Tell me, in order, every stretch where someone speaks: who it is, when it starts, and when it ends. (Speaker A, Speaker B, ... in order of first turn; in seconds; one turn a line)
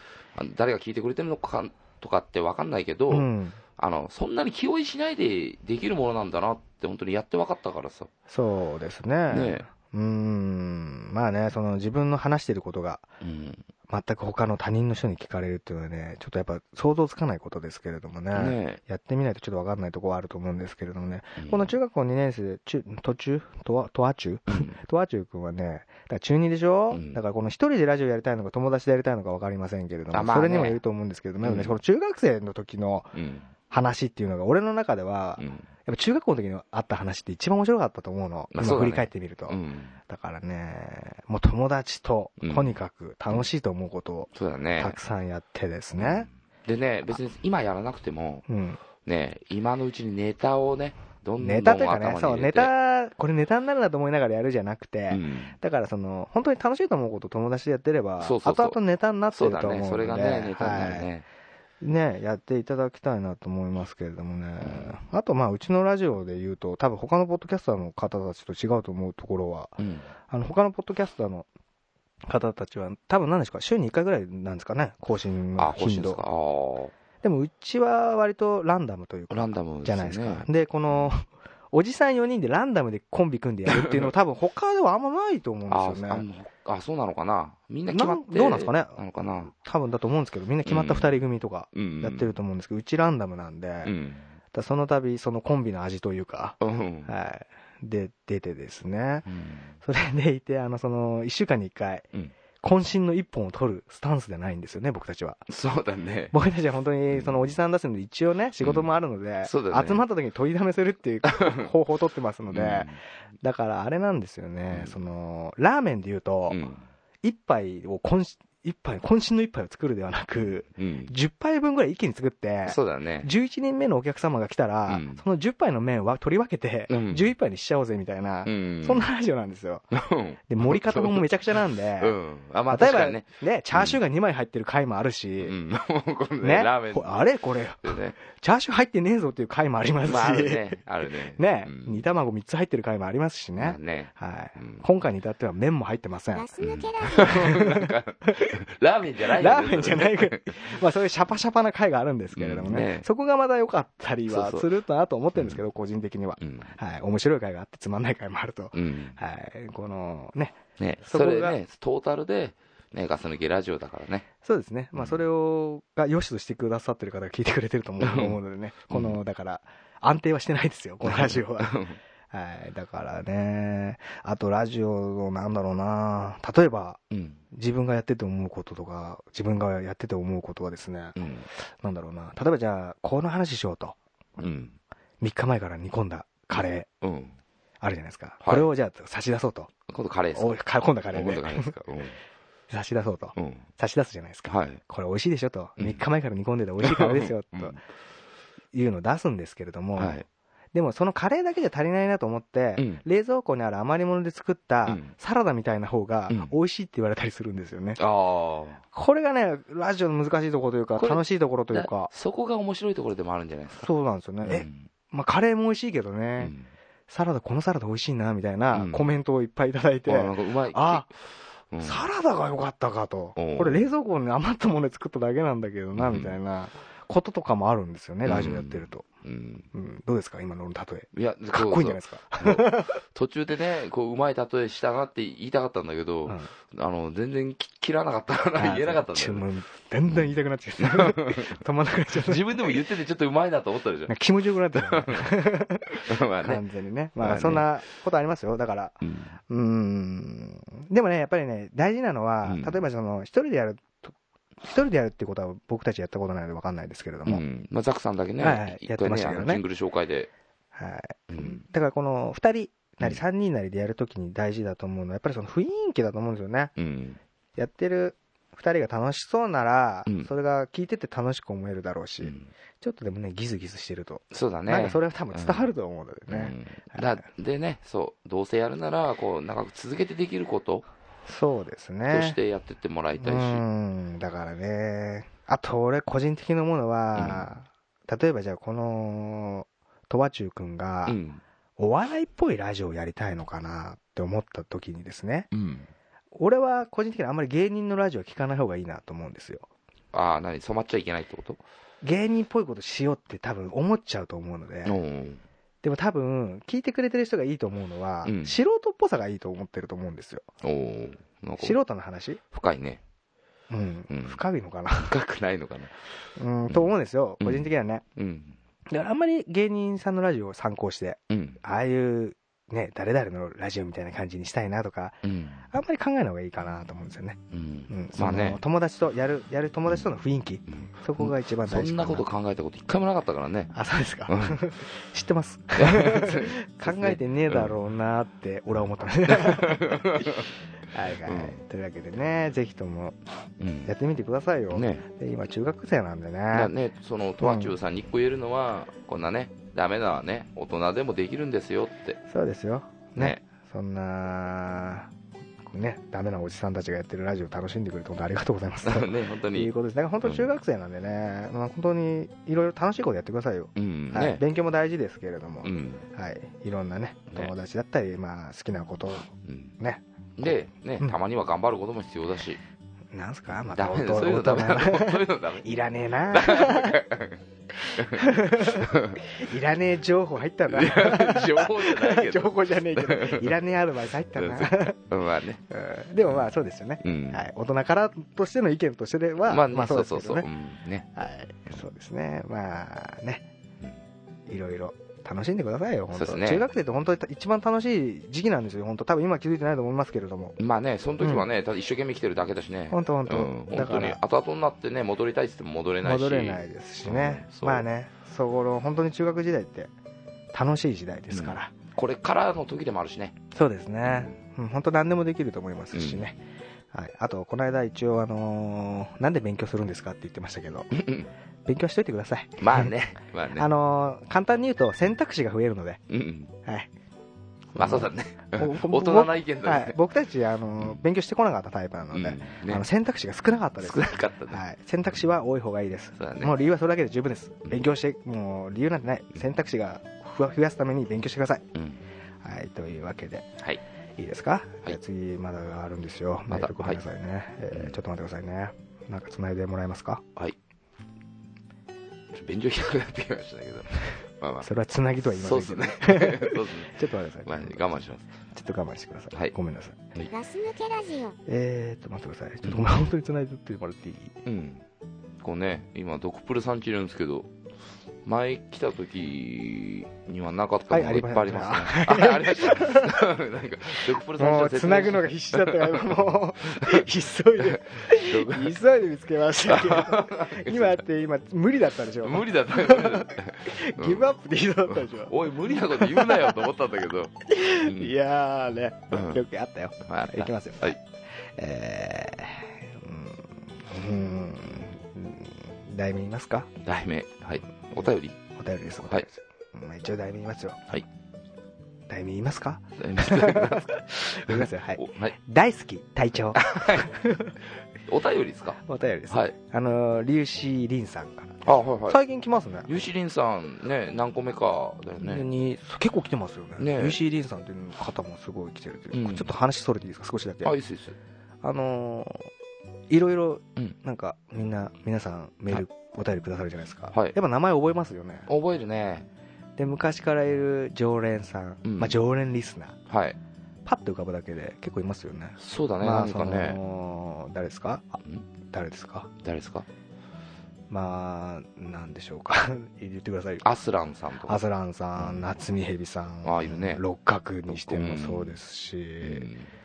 Speaker A: 0.3-8.1
Speaker B: 3.1-3.6
Speaker B: 8.3-13.1
Speaker A: 9.3-9.7
Speaker A: 13.2-13.7
Speaker B: 13.9-33.1
Speaker A: 18.3-18.8
Speaker A: 21.4-21.7
Speaker A: 24.5-24.8
Speaker A: 26.9-27.2
Speaker A: 30.1-30.8
Speaker A: 31.4-31.8
Speaker A: 33.1-33.5
Speaker B: 33.7-46.3
Speaker A: 35.4-35.7
Speaker A: 38.5-40.0
Speaker A: 42.4-43.5
Speaker A: 44.3-45.0
Speaker A: 46.0-48.4
Speaker B: 48.5-48.8
Speaker A: 49.0-52.7
Speaker B: 51.4-61.1
Speaker A: 55.1-55.5
Speaker A: 58.2-58.8
Speaker A: 59.3-61.2
Speaker B: 61.8-71.5
Speaker A: 64.6-64.9
Speaker A: 69.8-70.1
Speaker B: 72.2-76.2
Speaker A: 75.6-76.9
Speaker B: 77.2-86.2
Speaker A: 79.3-81.1
Speaker A: 83.7-84.1
Speaker A: 85.7-89.5
Speaker B: 87.9-93.9
Speaker A: 90.6-91.2
Speaker A: 91.7-92.3
Speaker A: 93.8-94.3
Speaker B: 94.5-99.2
Speaker A: 96.6-97.1
Speaker A: 99.2-99.7
Speaker B: 99.8-102.1
Speaker B: 102.6-105.4
Speaker A: 105.5-106.3
Speaker B: 106.3-116.6
Speaker A: 107.1-107.5
Speaker A: 108.6-110.0
Speaker A: 111.2-111.7
Speaker A: 112.5-113.0
Speaker A: 114.7-115.0
Speaker A: 116.5-116.8
Speaker B: 117.2-129.8
Speaker A: 120.7-121.1
Speaker A: 122.7-123.3
Speaker A: 124.9-125.2
Speaker A: 126.9-127.3
Speaker A: 128.4-129.1
Speaker A: 129.9-131.3
Speaker B: 130.5-132.2
Speaker A: 132.0-134.0
Speaker B: 132.7-135.5
Speaker A: 135.4-137.3
Speaker B: 136.4-140.8
Speaker A: 137.8-138.2
Speaker A: 140.0-142.0
Speaker B: 141.3-146.5
Speaker A: 143.6-144.8
Speaker C: 146.3-147.5
Speaker A: 146.6-150.7
Speaker B: 147.2-148.5
Speaker B: 149.3-161.6
Speaker A: 152.3-153.1
Speaker A: 154.3-154.7
Speaker A: 155.3-155.6
Speaker A: 156.4-156.8
Speaker A: 158.7-159.2
Speaker A: 160.8-164.2
Speaker B: 164.4-171.8
Speaker A: 164.9-165.2
Speaker A: 168.0-169.2
Speaker A: 171.0-172.0
Speaker B: 172.3-181.2
Speaker A: 177.1-177.4
Speaker A: 181.2-181.5
Speaker B: 181.7-183.9
Speaker A: 184.4-184.8
Speaker B: 185.2-186.9
Speaker A: 186.5-187.4
Speaker B: 187.8-189.7
Speaker A: 188.4-188.7
Speaker A: 189.9-192.2
Speaker B: 190.3-191.8
Speaker B: 192.7-197.8
Speaker A: 193.3-193.7
Speaker A: 194.5-194.8
Speaker A: 195.8-196.0
Speaker A: 196.8-197.8
Speaker B: 198.7-200.2
Speaker A: 199.9-200.2
Speaker B: 200.7-208.0
Speaker A: 202.8-203.0
Speaker A: 204.9-205.1
Speaker A: 206.3-206.5
Speaker A: 208.0-208.8
Speaker B: 208.9-212.1
Speaker A: 211.0-213.9
Speaker B: 213.8-216.5
Speaker A: 214.4-214.9
Speaker A: 216.4-216.7
Speaker B: 217.1-221.1
Speaker A: 218.7-219.2
Speaker A: 220.1-221.1
Speaker A: 221.7-222.1
Speaker B: 221.8-229.1
Speaker A: 223.3-223.8
Speaker A: 225.9-226.4
Speaker A: 228.2-229.7
Speaker B: 229.7-233.0
Speaker A: 231.1-239.4
Speaker B: 236.2-236.5
Speaker B: 238.5-242.8
Speaker A: 240.1-241.6
Speaker A: 242.1-244.1
Speaker B: 244.1-257.4
Speaker A: 244.7-245.4
Speaker A: 246.0-246.6
Speaker A: 247.2-247.7
Speaker A: 249.0-249.4
Speaker A: 252.4-252.8
Speaker A: 257.2-260.3
Speaker B: 258.4-259.6
Speaker B: 260.7-266.7
Speaker A: 261.3-261.6
Speaker A: 266.8-267.2
Speaker B: 267.6-277.0
Speaker A: 272.2-272.5
Speaker A: 274.3-275.7
Speaker A: 276.3-280.8
Speaker B: 281.2-282.4
Speaker A: 282.1-283.6
Speaker B: 283.2-291.2
Speaker A: 287.1-287.5
Speaker A: 291.1-291.4
Speaker B: 291.8-295.5
Speaker A: 295.5-295.9
Speaker B: 296.3-299.7
Speaker A: 300.1-301.6
Speaker B: 302.0-305.0
Speaker A: 304.8-305.4
Speaker B: 305.8-310.4
Speaker A: 308.2-308.6
Speaker A: 310.6-311.8
Speaker B: 311.6-312.4
Speaker A: 312.5-313.0
Speaker B: 313.7-315.1
Speaker A: 314.1-314.4
Speaker A: 315.0-316.0
Speaker B: 316.4-318.0
Speaker A: 316.7-318.6
Speaker B: 318.9-332.2
Speaker A: 321.3-321.6
Speaker A: 325.2-325.6
Speaker A: 327.5-328.6
Speaker A: 330.7-333.7
Speaker B: 333.7-343.2
Speaker A: 334.3-334.6
Speaker A: 335.8-337.7
Speaker A: 339.2-340.5
Speaker A: 341.2-341.6
Speaker A: 343.6-343.9
Speaker B: 343.9-346.7
Speaker A: 344.7-345.1
Speaker A: 346.5-352.2
Speaker B: 347.4-347.7
Speaker B: 352.3-355.1
Speaker B: 355.6-371.1
Speaker A: 358.8-359.7
Speaker A: 360.2-360.5
Speaker A: 363.8-364.4
Speaker A: 365.6-366.0
Speaker A: 369.4-369.8
Speaker A: 370.4-372.6
Speaker B: 373.1-377.0
Speaker A: 373.7-375.7
Speaker A: 376.3-377.4
Speaker B: 377.9-385.0
Speaker A: 377.9-379.2
Speaker A: 380.7-383.6
Speaker A: 384.4-385.6
Speaker B: 385.7-390.4
Speaker A: 387.0-387.4
Speaker A: 389.5-391.1
Speaker B: 391.1-393.4
Speaker B: 394.5-400.6
Speaker A: 396.1-396.6
Speaker A: 400.6-407.9
Speaker B: 401.2-401.4
Speaker B: 402.9-404.2
Speaker B: 406.0-409.9
Speaker B: 410.5-411.7
Speaker A: 411.3-413.3
Speaker B: 413.5-416.4
Speaker A: 414.0-414.4
Speaker A: 415.9-416.3
Speaker B: 416.9-420.9
Speaker A: 420.9-421.3
Speaker B: 421.6-422.9
Speaker A: 422.6-423.7
Speaker B: 423.6-426.0
Speaker A: 426.1-426.5
Speaker A: 427.7-430.0
Speaker B: 427.8-441.6
Speaker A: 432.1-432.9
Speaker A: 433.8-434.6
Speaker A: 436.1-436.5
Speaker A: 441.7-442.0
Speaker B: 442.4-443.5
Speaker B: 444.2-450.2
Speaker A: 446.5-447.0
Speaker A: 447.7-448.0
Speaker A: 452.3-454.7
Speaker B: 454.6-458.0
Speaker A: 455.3-458.2
Speaker B: 458.5-460.0
Speaker C: 460.3-461.4
Speaker B: 461.5-464.4
Speaker A: 464.4-464.8
Speaker A: 465.4-467.5
Speaker A: 468.2-477.0
Speaker B: 470.9-473.2
Speaker B: 474.1-486.6
Speaker A: 477.6-478.7
Speaker A: 479.7-481.0
Speaker A: 482.2-484.3
Speaker A: 484.9-488.1
Speaker B: 487.5-491.0
Speaker A: 489.1-489.4
Speaker A: 490.0-491.0
Speaker B: 491.5-496.7
Speaker A: 496.8-498.4
Speaker B: 498.6-500.9
Speaker A: 499.0-499.2
Speaker B: 502.1-507.5
Speaker A: 503.0-505.3
Speaker A: 506.6-507.1
Speaker A: 508.1-508.8
Speaker B: 508.8-512.9
Speaker A: 509.3-509.5
Speaker A: 511.6-512.2
Speaker A: 512.9-515.5
Speaker B: 515.2-520.7
Speaker A: 516.8-517.2
Speaker A: 519.1-519.5
Speaker A: 520.6-521.1
Speaker B: 521.6-522.5
Speaker B: 523.1-528.5
Speaker A: 528.5-529.3
Speaker B: 529.8-533.0
Speaker A: 531.8-532.2
Speaker A: 533.1-533.4
Speaker B: 533.8-539.3
Speaker A: 535.6-536.8
Speaker A: 539.4-539.9
Speaker B: 540.9-543.6
Speaker A: 543.6-544.6
Speaker B: 544.5-549.5
Speaker A: 545.2-545.5
Speaker A: 546.4-547.0
Speaker A: 547.7-548.6
Speaker A: 549.2-549.7